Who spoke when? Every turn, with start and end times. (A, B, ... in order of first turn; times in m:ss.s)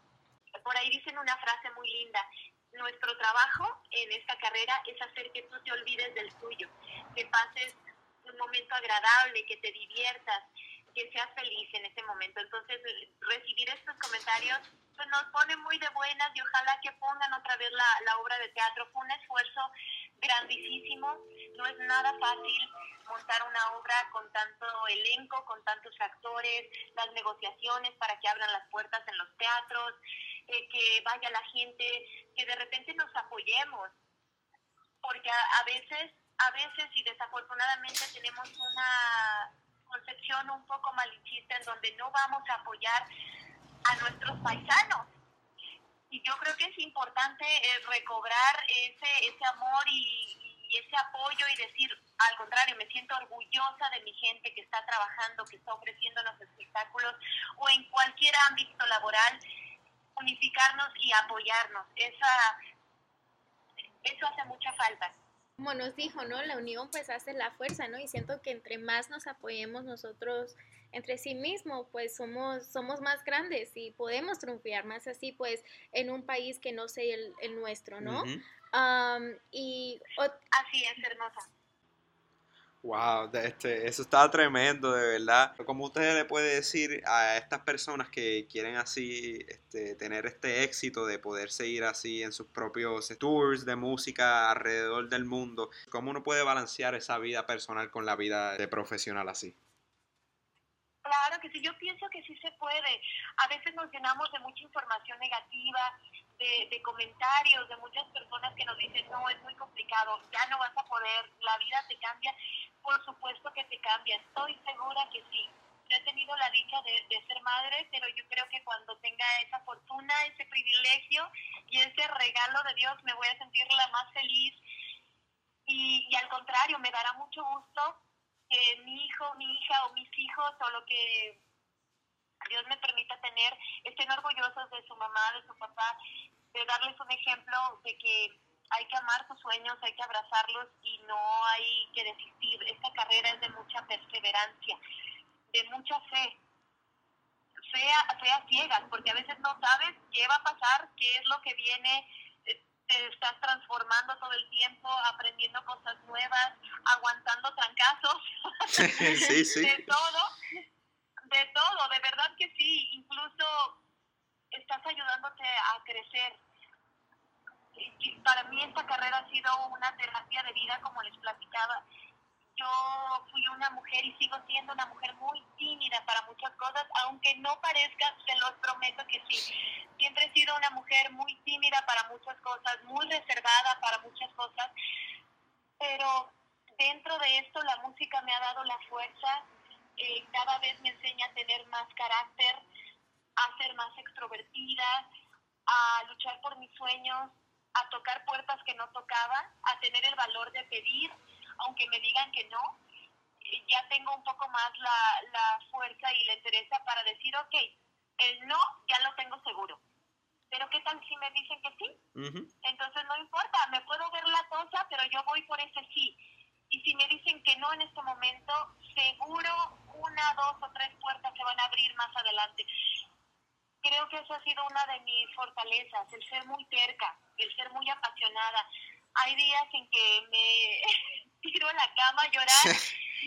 0:00.6-0:30.0 A
0:30.5-0:34.0 A
0:35.0-0:43.1 A
0:43.9-0:45.1 A
0:46.1-0:59.4 A
1:00.2-1:02.6 A
1:04.0-1:05.1 A
1:05.6-1:20.4 B
1:18.0-1:18.4 C
1:20.5-1:21.5 A
1:22.8-1:39.6 C
1:41.0-2:04.6 A
2:05.7-2:11.4 A
2:12.5-2:16.0 A
2:16.5-2:24.8 A
2:25.5-2:26.4 A
2:27.7-2:40.3 A
2:38.7-2:39.7 C
2:41.3-2:43.8 A
2:44.5-2:46.4 A
2:47.8-2:51.8 A
2:52.6-3:04.7 A
3:05.8-3:09.5 A
3:10.0-3:12.6 A
3:13.4-3:15.1 A
3:15.7-3:22.8 A
3:23.4-3:29.8 A
3:30.5-3:32.0 A
3:32.2-3:32.5 C
3:32.6-3:36.2 A
3:36.7-3:42.7 A
3:43.8-3:48.7 A
3:49.2-3:50.9 A
3:51.4-3:52.8 A